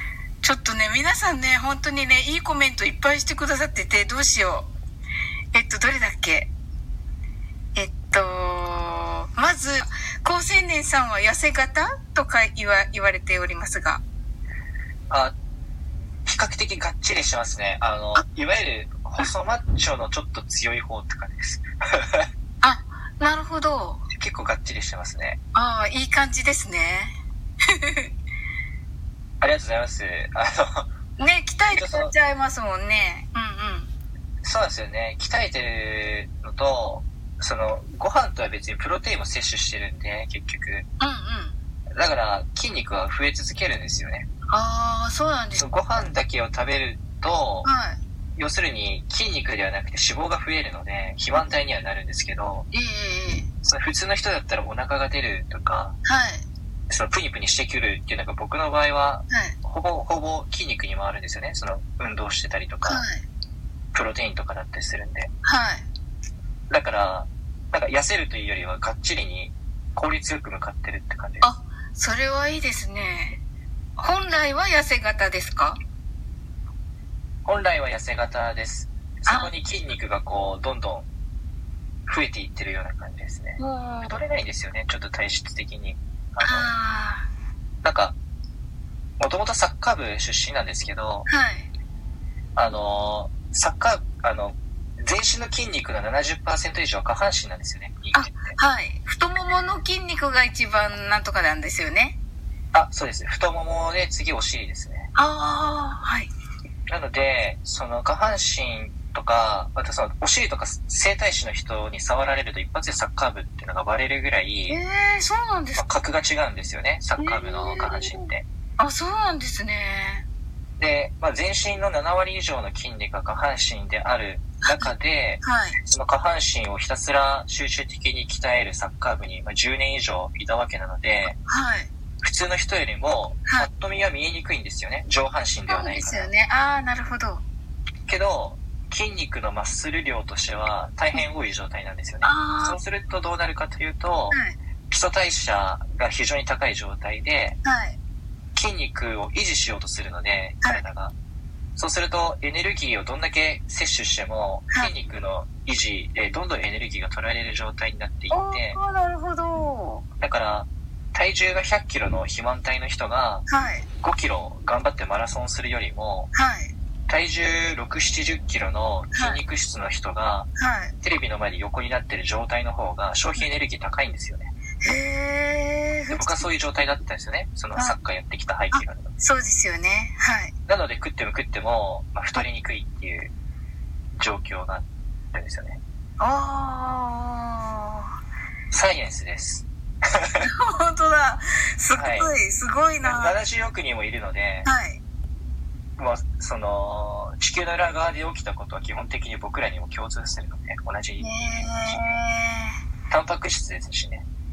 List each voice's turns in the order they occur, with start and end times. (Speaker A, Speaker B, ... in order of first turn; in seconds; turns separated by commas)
Speaker A: 0.4-4.7, Speaker A: 5.5-6.5, Speaker A: 7.7-14.0, Speaker B: 16.2-22.3, Speaker A: 22.6-24.0, Speaker B: 24.1-25.4, Speaker A: 25.5-27.1, Speaker A: 27.8-28.1, Speaker B: 29.4-30.9, Speaker A: 31.2-33.9, Speaker B: 31.7-32.1, Speaker B: 34.4-40.9, Speaker A: 41.0-41.5, Speaker B: 41.9-44.3, Speaker A: 44.5-45.6, Speaker B: 45.6-47.7, Speaker A: 47.6-48.0, Speaker B: 48.4-52.7, Speaker A: 52.7-53.5, Speaker B: 53.6-56.0, Speaker A: 56.0-56.4, Speaker B: 56.9-63.0, Speaker A: 59.3-59.5, Speaker A: 62.8-63.2, Speaker B: 63.9-65.3, Speaker A: 65.4-65.8, Speaker B: 66.7-71.5, Speaker A: 71.4-73.4, Speaker A: 74.0-75.8, Speaker B: 77.4-81.1, Speaker A: 79.3-79.5, Speaker B: 82.1-86.7, Speaker A: 83.6-84.2, Speaker A: 86.4-87.2, Speaker B: 87.8-88.2, Speaker B: 89.2-91.3, Speaker A: 91.3-91.7, Speaker B: 92.5-98.6, Speaker A: 98.1-102.2, Speaker B: 102.7-105.1, Speaker A: 105.2-106.3, Speaker B: 106.9-114.8, Speaker A: 114.7-115.8, Speaker B: 115.8-118.5, Speaker A: 117.2-120.2, Speaker B: 120.8-131.3, Speaker A: 124.6-124.9, Speaker A: 125.4-125.8, Speaker A: 131.4-131.9, Speaker B: 132.2-136.3, Speaker A: 135.7-137.4, Speaker B: 138.1-147.6, Speaker A: 142.2-142.8, Speaker A: 147.6-148.0, Speaker B: 148.5-151.1, Speaker B: 151.8-158.8, Speaker A: 158.3-160.0, Speaker B: 160.2-163.5, Speaker A: 163.5-163.8, Speaker B: 164.0-166.3, Speaker A: 166.3-166.7, Speaker B: 167.1-170.5, Speaker A: 169.1-169.4, Speaker A: 170.6-170.9, Speaker B: 171.0-174.5, Speaker A: 174.8-176.4, Speaker B: 176.1-179.1, Speaker A: 178.7-180.5, Speaker B: 180.7-183.3, Speaker B: 184.2-185.8, Speaker A: 186.2-188.1, Speaker B: 188.7-190.5, Speaker A: 190.4-193.3, Speaker B: 191.9-192.3, Speaker B: 193.0-194.7, Speaker A: 194.6-195.0, Speaker B: 196.0-202.2, Speaker A: 201.2-202.7, Speaker B: 203.1-204.2